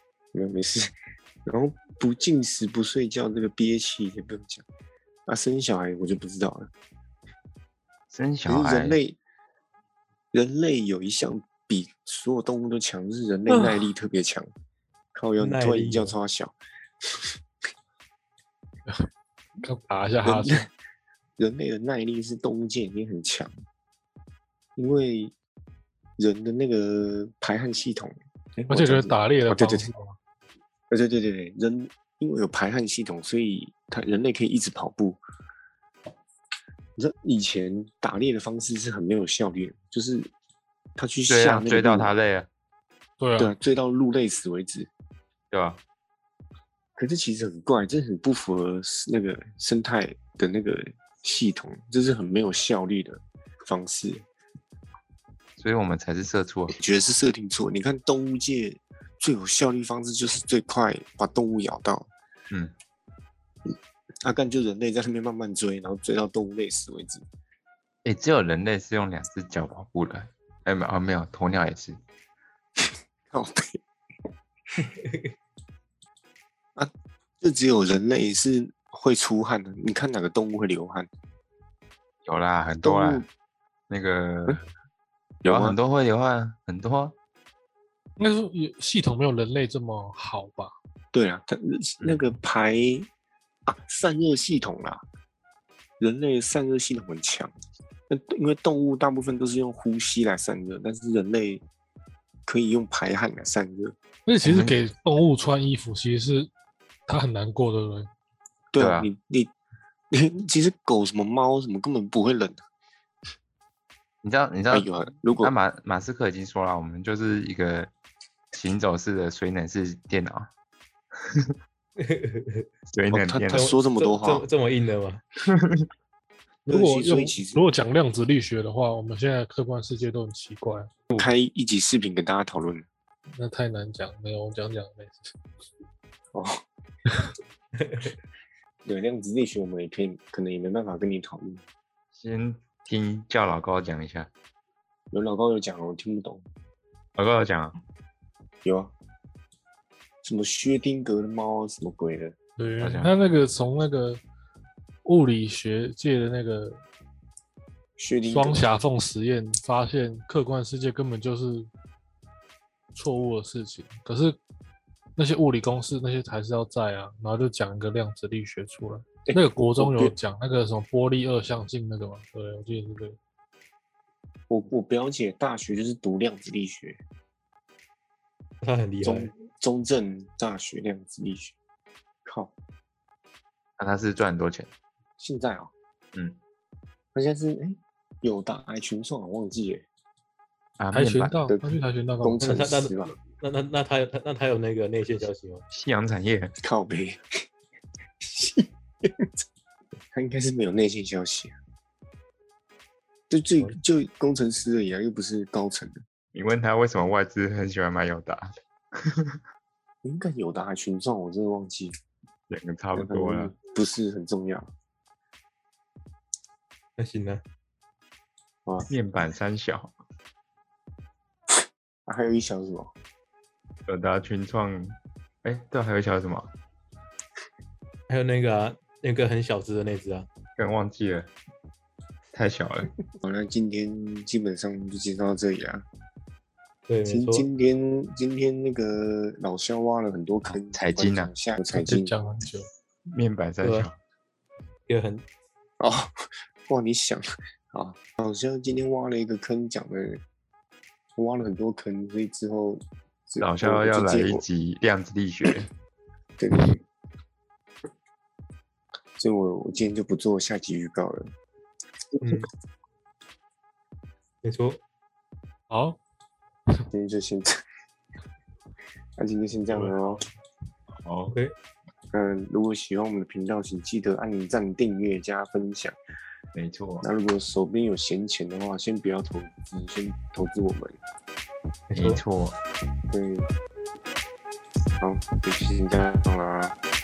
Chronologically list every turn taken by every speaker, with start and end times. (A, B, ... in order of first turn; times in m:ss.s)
0:00.3-0:00.9 A
0:01.4-0:04.6 A
0:05.3-0:06.7 A
0:08.1-0:09.0 B
0:08.5-0:09.2 A
0:10.3-0:14.5 A
0:13.5-0:13.9 C
0:15.1-0:16.5 A
0:15.4-0:16.2 C
0:19.6-0:20.6 D
0:20.2-0:20.7 A
0:21.4-0:23.5 A
0:24.8-0:25.3 A
0:26.2-0:29.9 A
0:28.7-0:30.2 D
0:30.9-0:35.2 A
0:37.0-0:40.3 A
0:41.0-0:42.1 A
0:41.3-0:42.5 B
0:43.2-0:43.5 D
0:43.4-0:44.9 A
0:45.5-0:45.8 B
0:47.0-0:54.2 A
0:55.6-0:56.8 B
0:56.8-1:02.1 A
1:04.2-1:07.2 A
1:08.0-1:12.0 B
1:13.3-1:13.8 A
1:14.8-1:15.3 C
1:16.8-1:21.1 A
1:22.2-1:23.2 B
1:22.8-1:23.2 A
1:23.9-1:24.6 B
1:25.4-1:25.8 A
1:25.4-1:27.1 B
1:28.2-1:30.7 D
1:31.1-1:33.1 A
1:33.6-1:35.0 A
1:36.0-1:37.5 A
1:38.1-1:41.6 A
1:42.4-1:43.9 A
1:44.3-1:46.5 D
1:44.4-1:44.8 B
1:47.1-1:48.1 D
1:48.7-1:49.5 A
1:48.8-1:49.1 B
1:50.1-1:52.6 A
1:54.2-1:57.9 B
1:54.7-1:55.5 A
1:58.5-2:00.5 B
2:01.2-2:01.5 B
2:02.0-2:02.6 C
2:02.9-2:03.6 B
2:03.1-2:04.4 A
2:03.5-2:05.2 C
2:05.5-2:05.8 B
2:06.6-2:07.7 A
2:06.7-2:11.0 D
2:11.1-2:12.9 A
2:13.3-2:15.3 D
2:16.3-2:16.6 A
2:17.8-2:18.1 C
2:18.8-2:21.6 A
2:22.2-2:24.3 B
2:25.1-2:26.4 A
2:27.2-2:27.8 B
2:28.6-2:28.9 A
2:30.2-2:32.3 A
2:32.6-2:34.2 D
2:32.8-2:33.1 B
2:35.0-2:36.8 D
2:38.0-2:38.6 A
2:38.3-2:41.7 D
2:42.9-2:44.4 D
2:45.2-2:53.2 D
2:49.2-2:50.1 A
2:54.5-2:57.0 A
2:58.6-2:59.3 C
2:59.0-3:01.5 A
3:02.2-3:02.5 A
3:03.8-3:04.7 B
3:05.2-3:05.7 A
3:07.1-3:09.8 A
3:10.8-3:11.3 B
3:10.9-3:12.8 D
3:12.2-3:13.1 A
3:12.4-3:15.6 C
3:15.7-3:16.5 B
3:16.6-3:17.4 A
3:18.2-3:19.4 A
3:20.1-3:21.5 A
3:23.3-3:26.0 A
3:26.3-3:29.4 B
3:30.0-3:31.9 A
3:32.5-3:33.5 B
3:32.9-3:34.7 A
3:37.0-3:37.4 C
3:38.9-3:39.9 B
3:42.0-3:42.9 A
3:43.8-3:46.5 B
3:48.1-3:50.3 C
3:50.6-3:51.3 B
3:52.3-3:52.9 B
3:53.2-3:55.8 A
3:56.9-3:57.5 C
3:57.0-4:02.1 A
4:00.5-4:01.3 B
4:01.7-4:02.7 D
4:03.1-4:04.0 B
4:03.6-4:03.9 C
4:04.9-4:05.2 C
4:05.8-4:10.2 A
4:11.2-4:14.4 A
4:13.4-4:15.7 B
4:16.4-4:16.8 A
4:19.2-4:21.3 A
4:22.2-4:22.5 C
4:24.4-4:24.8 C
4:25.7-4:26.0 D
4:26.9-4:27.6 A
4:29.2-4:30.2 A
4:30.9-4:31.4 B
4:32.1-4:36.0 A
4:36.5-4:37.0 B
4:37.0-4:41.0 A
4:41.9-4:42.2 C
4:42.0-4:42.6 B
4:43.1-4:43.5 A
4:45.0-4:46.7 A